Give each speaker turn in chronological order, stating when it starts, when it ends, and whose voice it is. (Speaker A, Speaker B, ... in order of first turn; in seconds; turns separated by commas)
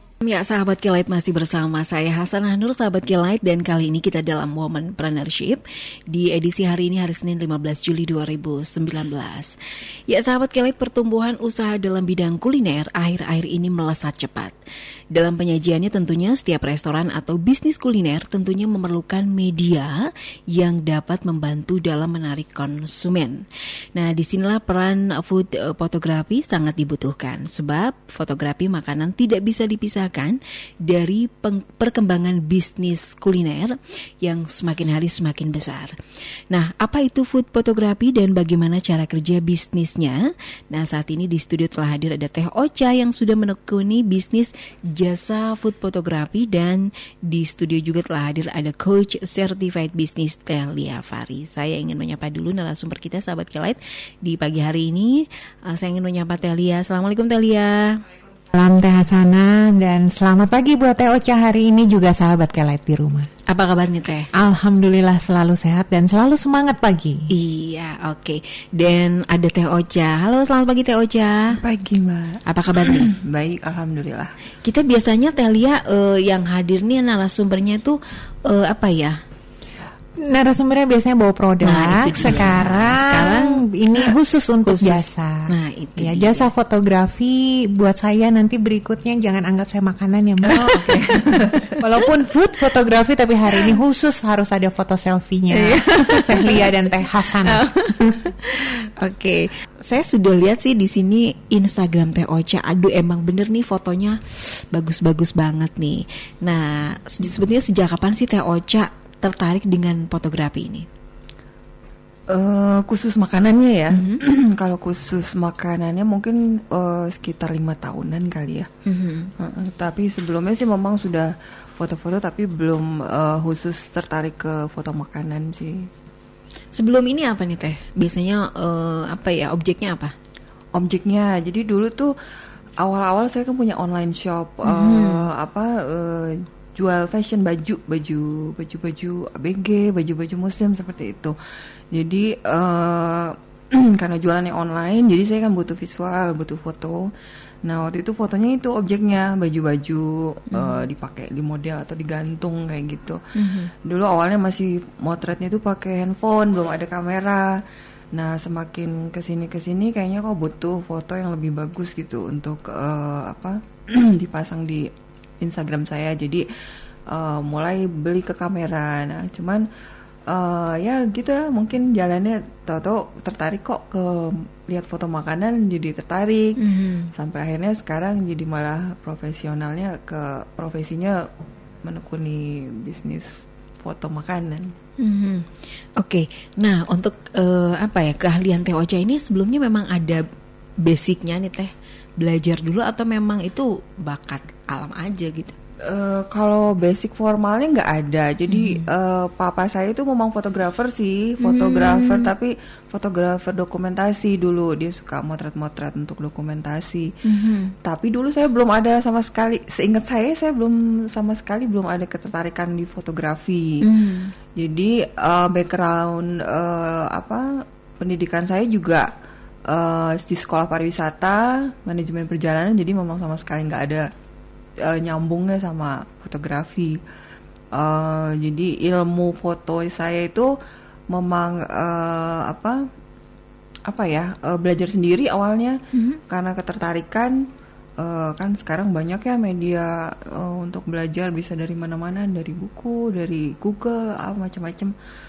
Speaker A: 0.2-9.6, Speaker A: 10.1-14.5, Speaker A: 15.1-23.4, Speaker A: 23.9-35.9, Speaker A: 36.5-40.2, Speaker A: 40.7-58.0, Speaker B: 58.5-63.3, Speaker A: 63.5-64.3, Speaker B: 64.3-67.3, Speaker A: 67.3-71.6, Speaker C: 71.5-74.3, Speaker A: 72.5-73.1, Speaker A: 74.6-79.2, Speaker B: 80.2-90.9, Speaker A: 81.6-84.1, Speaker A: 84.6-86.5, Speaker C: 90.5-91.7, Speaker A: 90.8-91.6, Speaker B: 91.8-98.1, Speaker A: 95.5-110.9, Speaker C: 112.3-118.7, Speaker A: 113.9-114.2, Speaker A: 118.8-119.3, Speaker C: 119.4-125.9, Speaker A: 126.7-130.1, Speaker C: 130.7-132.1, Speaker C: 132.8-141.3, Speaker A: 134.6-135.2, Speaker C: 141.9-147.1, Speaker C: 147.6-153.2, Speaker A: 150.5-150.8, Speaker A: 153.3-153.7, Speaker C: 153.8-157.4, Speaker C: 158.1-164.8, Speaker C: 165.4-166.4, Speaker C: 167.1-169.6, Speaker C: 170.3-176.6, Speaker A: 176.6-177.1, Speaker C: 177.1-181.1, Speaker C: 181.8-183.3, Speaker C: 183.8-184.6, Speaker A: 185.0-190.2, Speaker A: 190.8-195.5, Speaker C: 195.9-207.1, Speaker A: 198.5-198.9, Speaker A: 201.4-202.3, Speaker A: 207.2-207.7, Speaker C: 207.8-213.7, Speaker A: 213.8-214.3, Speaker C: 214.6-217.4, Speaker C: 218.0-219.1, Speaker C: 219.7-224.0, Speaker C: 224.9-226.9, Speaker C: 227.8-230.5, Speaker C: 231.1-232.8, Speaker C: 233.9-235.8, Speaker A: 235.9-236.2, Speaker C: 236.3-237.3, Speaker C: 238.0-244.9